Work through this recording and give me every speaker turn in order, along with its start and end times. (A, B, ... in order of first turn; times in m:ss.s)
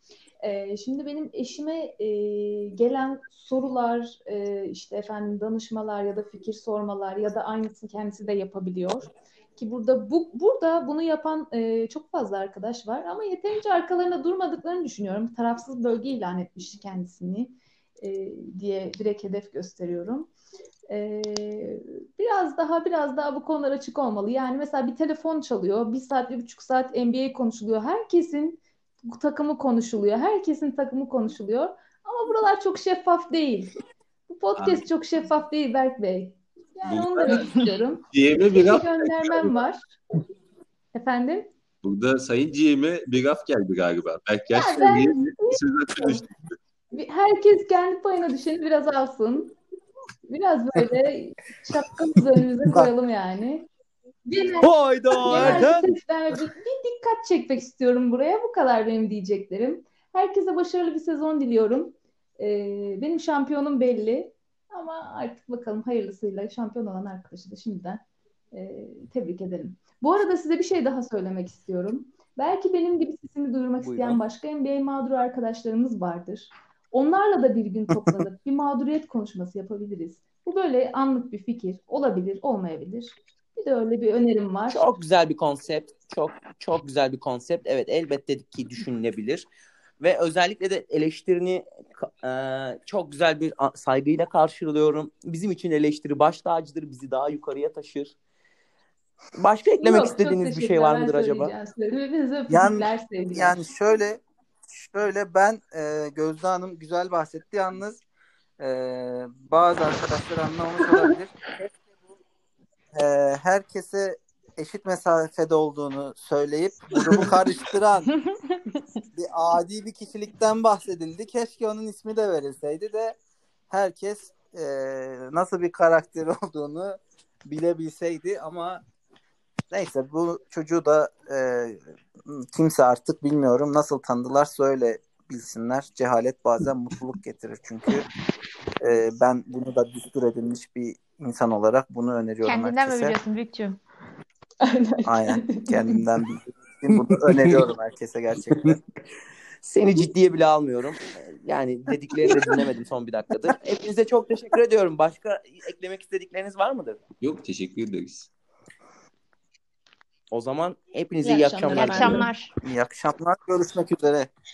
0:00.4-0:20.3 A
0:20.9-0:33.7 A
0:34.3-0:39.9 A
0:36.9-0:37.5 B
0:38.1-0:39.6 B
0:40.9-0:41.5 A
0:41.8-0:46.4 B
0:44.5-0:46.2 A
0:46.9-0:49.6 A
0:50.3-0:53.7 A
0:54.3-1:24.8 A
0:54.6-0:55.9 C
0:55.3-0:55.6 D
1:13.8-1:14.2 C
1:24.7-1:29.5 C
1:30.0-1:38.2 C
1:39.4-1:41.5 C
1:39.8-1:43.6 A
1:42.5-1:48.0 D
1:48.6-1:51.8 D
1:53.0-1:58.1 D
1:58.3-1:58.8 A
1:59.2-2:03.2 D
2:03.7-2:08.8 D
2:09.7-2:18.1 D
2:18.8-2:23.2 D
2:22.4-2:23.8 E
2:24.6-2:26.0 A
2:25.0-2:28.8 D
2:26.9-2:27.6 C
2:29.6-2:37.0 C
2:37.2-2:38.3 B
2:40.3-2:42.3 C
2:41.2-2:42.3 A
2:41.7-2:42.5 E
2:42.6-2:44.3 D